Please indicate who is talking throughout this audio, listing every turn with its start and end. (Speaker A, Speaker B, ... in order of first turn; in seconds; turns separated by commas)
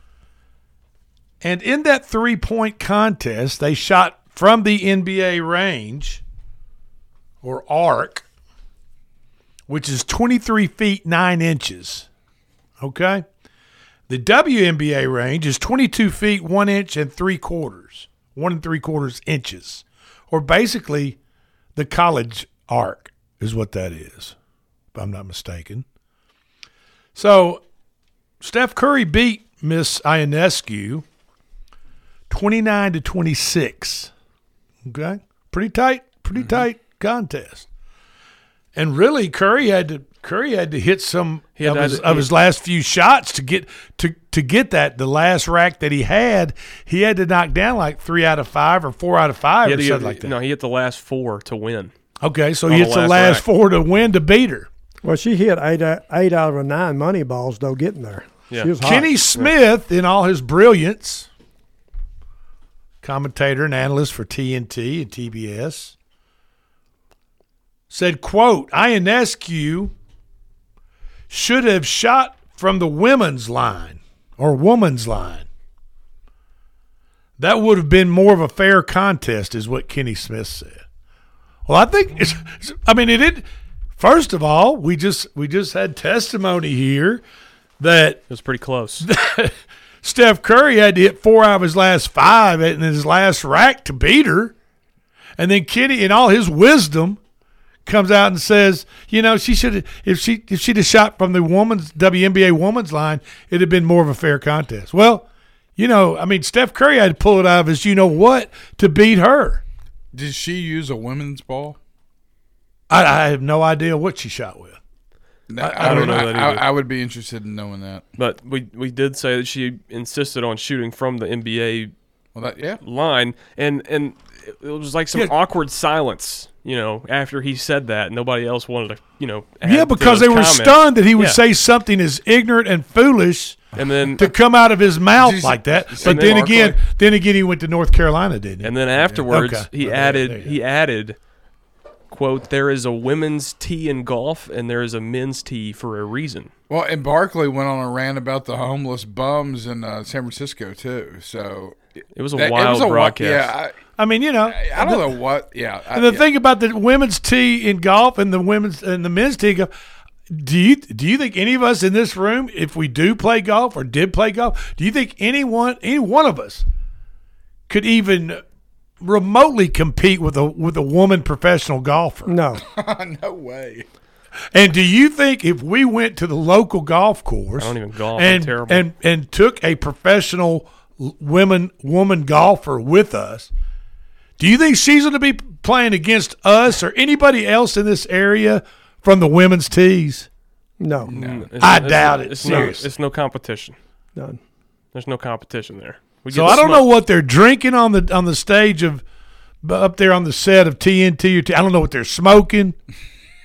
Speaker A: 1.4-6.2, Speaker A: 7.4-8.2, Speaker A: 9.7-12.1, Speaker A: 12.8-13.2, Speaker A: 14.1-21.2, Speaker A: 21.7-24.3, Speaker A: 24.9-25.8, Speaker A: 27.1-27.6, Speaker A: 28.4-31.0, Speaker A: 32.3-34.1, Speaker A: 34.8-37.7, Speaker B: 36.4-36.6, Speaker A: 38.7-50.3, Speaker C: 41.6-42.3, Speaker C: 49.6-51.9, Speaker A: 52.2-54.7, Speaker C: 52.7-53.4, Speaker D: 55.0-59.1, Speaker A: 58.8-61.3, Speaker A: 63.0-65.9, Speaker A: 67.9-69.9, Speaker A: 71.3-75.5, Speaker A: 77.4-80.8, Speaker A: 81.7-83.5, Speaker A: 84.0-87.2, Speaker A: 87.8-88.2, Speaker C: 88.3-89.0, Speaker A: 89.0-94.5, Speaker A: 95.4-97.2, Speaker A: 97.8-105.2, Speaker A: 105.8-109.6, Speaker B: 110.1-111.8, Speaker A: 112.9-114.8, Speaker B: 115.5-118.0, Speaker A: 115.6-116.4, Speaker C: 115.8-116.7, Speaker C: 118.2-121.9, Speaker B: 122.3-122.8, Speaker C: 122.8-131.4, Speaker A: 129.6-140.5, Speaker C: 133.8-134.2, Speaker B: 135.2-136.8, Speaker C: 136.0-136.7, Speaker C: 138.6-141.2, Speaker C: 142.1-146.5, Speaker B: 146.7-151.8, Speaker C: 152.1-153.5, Speaker B: 152.3-153.7, Speaker A: 154.0-155.1, Speaker B: 154.4-156.2, Speaker A: 155.9-159.7, Speaker A: 160.3-166.6, Speaker A: 167.7-168.4, Speaker A: 169.0-172.4, Speaker D: 172.3-172.6, Speaker B: 172.6-173.8, Speaker A: 174.5-183.5, Speaker C: 177.6-178.8, Speaker A: 184.4-190.3, Speaker D: 190.8-191.1, Speaker B: 191.1-191.5, Speaker C: 191.1-193.8, Speaker A: 191.6-192.9, Speaker D: 192.4-192.7, Speaker C: 194.9-196.9, Speaker A: 196.3-199.0, Speaker A: 199.6-202.8